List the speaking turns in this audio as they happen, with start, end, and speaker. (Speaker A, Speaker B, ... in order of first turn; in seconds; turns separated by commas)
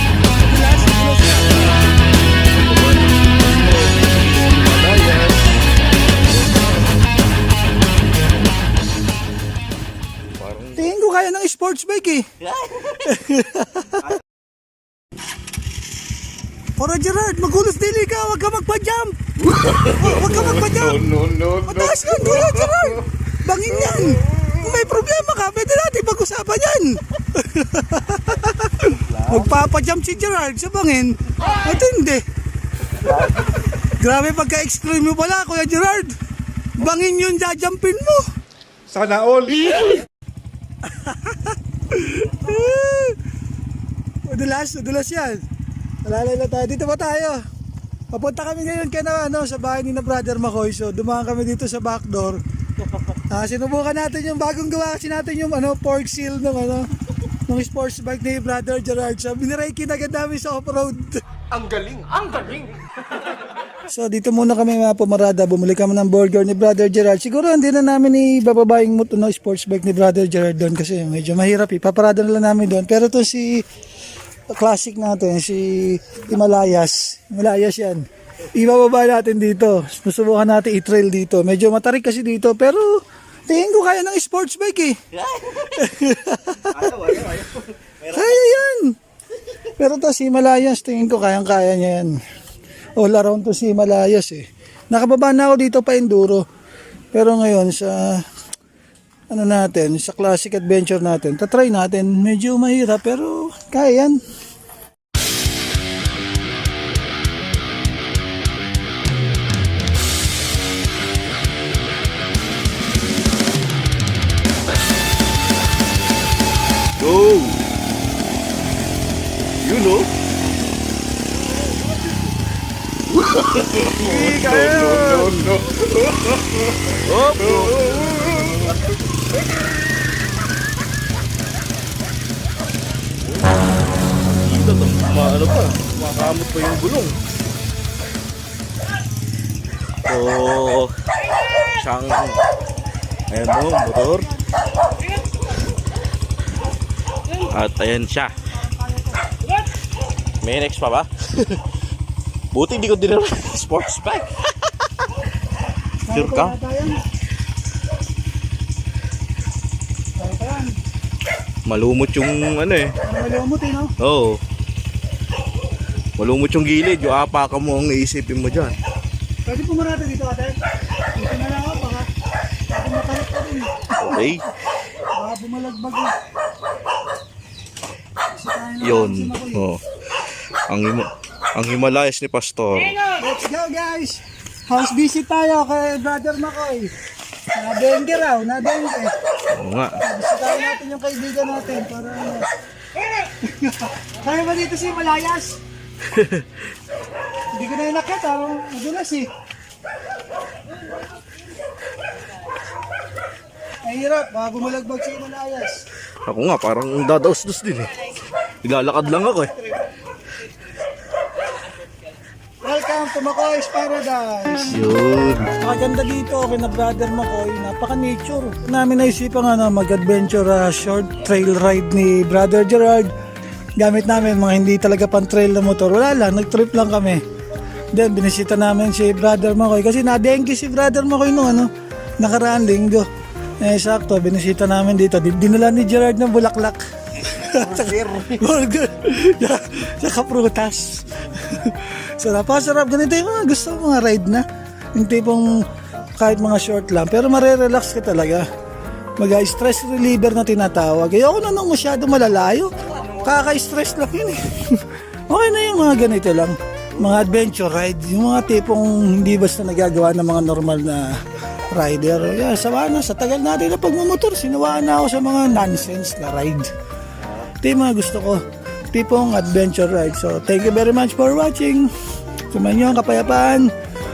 Speaker A: 0.4-1.7, Speaker B: 2.5-5.5, Speaker B: 6.2-7.1, Speaker B: 10.4-10.9, Speaker A: 10.8-12.3, Speaker A: 12.9-14.1, Speaker A: 16.8-32.2, Speaker C: 21.0-22.0, Speaker A: 33.8-36.1, Speaker A: 36.8-38.2, Speaker C: 38.9-39.9, Speaker A: 40.9-43.2, Speaker A: 44.3-45.4, Speaker A: 46.0-47.4, Speaker A: 48.1-52.4, Speaker A: 53.1-56.9, Speaker A: 57.5-61.2, Speaker C: 61.6-62.7, Speaker A: 63.9-73.6, Speaker A: 74.5-85.0, Speaker A: 85.5-87.1, Speaker A: 88.0-88.9, Speaker A: 89.6-92.2, Speaker A: 93.0-96.4, Speaker A: 97.1-98.2, Speaker A: 99.3-104.2, Speaker B: 117.0-117.6, Speaker B: 119.6-120.1, Speaker B: 123.7-125.6, Speaker C: 124.2-126.3, Speaker B: 126.9-128.9, Speaker B: 134.3-137.2, Speaker B: 140.1-142.4, Speaker B: 143.3-144.3, Speaker B: 147.3-148.3, Speaker B: 150.4-151.6, Speaker B: 152.5-155.1, Speaker A: 156.1-157.1, Speaker B: 156.1-156.6, Speaker A: 160.2-160.8, Speaker B: 161.7-162.9, Speaker A: 163.0-163.9, Speaker B: 164.0-164.4, Speaker B: 166.2-168.8, Speaker A: 169.5-170.6, Speaker A: 171.2-172.1, Speaker A: 172.7-174.4, Speaker B: 174.0-174.4, Speaker A: 175.2-176.1, Speaker A: 178.3-179.7, Speaker B: 178.8-183.0, Speaker A: 183.0-186.9, Speaker A: 187.5-189.1, Speaker B: 189.5-190.0, Speaker A: 190.0-192.5, Speaker A: 193.1-195.6, Speaker B: 196.0-196.5, Speaker A: 197.5-199.3, Speaker A: 203.8-205.8, Speaker B: 206.3-209.6, Speaker A: 212.6-214.8, Speaker B: 214.7-215.5, Speaker A: 215.5-223.1, Speaker A: 223.8-227.2, Speaker A: 227.9-231.7, Speaker A: 232.2-233.1, Speaker A: 233.6-244.4, Speaker A: 244.9-245.5, Speaker A: 246.2-248.4, Speaker A: 249.2-261.1, Speaker A: 261.7-266.7, Speaker A: 267.6-268.4, Speaker A: 268.9-271.9, Speaker A: 272.5-273.7